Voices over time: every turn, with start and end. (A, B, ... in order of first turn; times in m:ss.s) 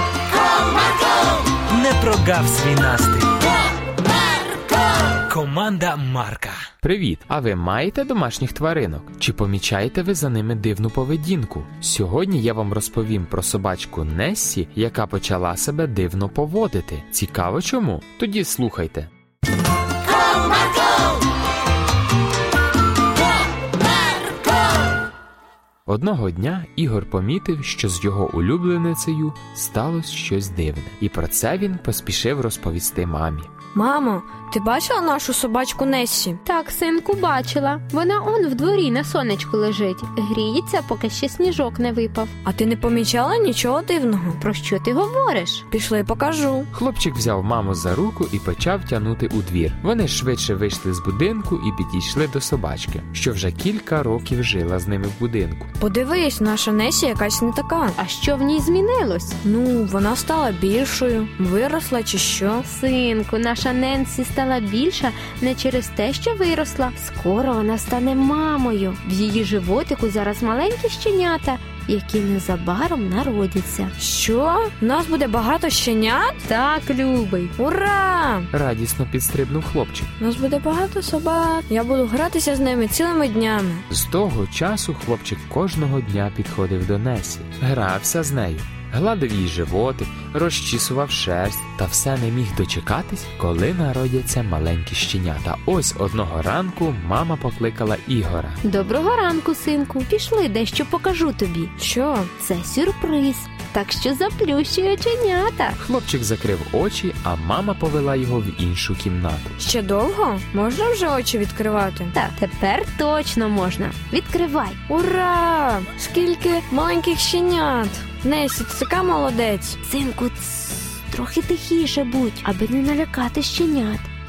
0:01.7-0:03.3 A
0:05.3-0:06.6 A
0:06.8-0:19.1 B
0:25.9-0:33.5 B
0:33.7-0:36.4 C
0:36.4-0:42.3 D
0:42.4-0:44.4 C
0:44.4-0:45.6 D
0:45.7-0:46.7 C
0:46.7-0:55.7 B
0:55.8-0:58.0 C
0:58.0-0:59.4 D
0:59.4-1:02.6 C
1:02.6-1:13.9 D
1:14.0-1:16.4 C
1:16.4-1:17.5 D
1:17.6-1:18.5 C
1:18.5-1:20.1 B
1:20.2-1:23.8 C
1:23.9-1:38.6 B
1:38.6-1:41.7 D
1:41.8-1:42.3 C
1:42.4-1:45.8 D
1:45.8-1:49.6 B
1:49.6-1:52.1 C
1:52.1-1:54.8 D
1:54.9-1:59.8 C
1:59.8-2:04.1 D